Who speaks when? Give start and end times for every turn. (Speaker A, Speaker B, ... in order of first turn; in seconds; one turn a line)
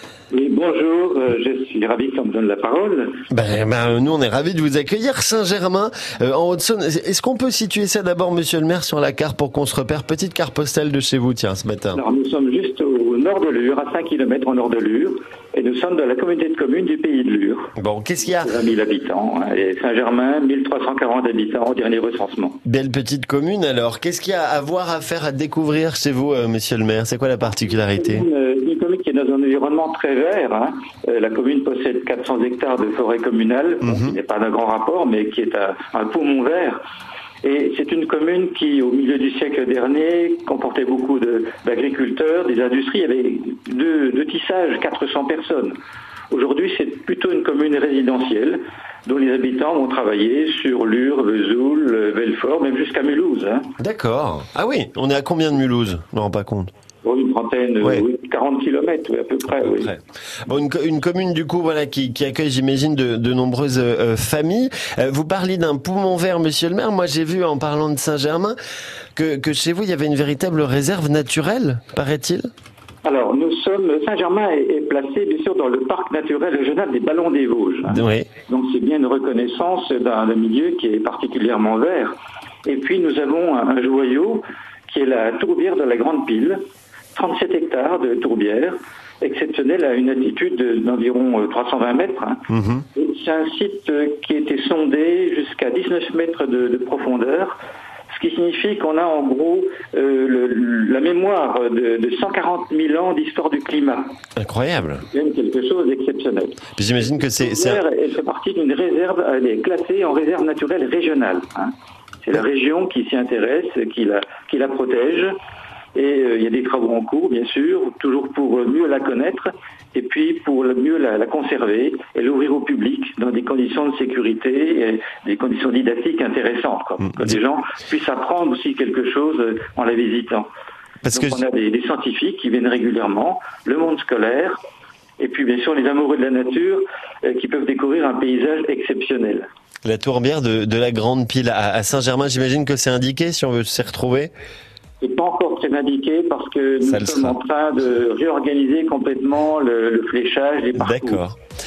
Speaker A: 0.3-3.2
Speaker B: 3.3-12.0
Speaker A: 11.9-17.7
Speaker B: 17.8-18.6
Speaker A: 18.4-22.6
Speaker B: 22.6-28.3
Speaker A: 28.0-36.8
Speaker B: 33.8-34.2
Speaker A: 37.4-45.8
Speaker A: 46.3-53.7
Speaker B: 53.8-56.7
Speaker A: 57.0-59.9
Speaker B: 59.6-68.6
Speaker B: 69.2-72.5
Speaker A: 73.0-86.6
Speaker B: 77.9-78.3
Speaker A: 87.1-97.6
Speaker B: 92.5-92.8
Speaker A: 98.1-104.1
Speaker B: 104.4-105.0
Speaker A: 105.1-115.3
Speaker B: 106.8-107.8
Speaker A: 116.0-130.5
Speaker B: 131.0-131.4
Speaker A: 131.1-134.6
Speaker A: 135.2-139.5
Speaker B: 139.8-144.3
Speaker A: 145.0-151.2
Speaker B: 146.8-147.4
Speaker B: 150.8-151.4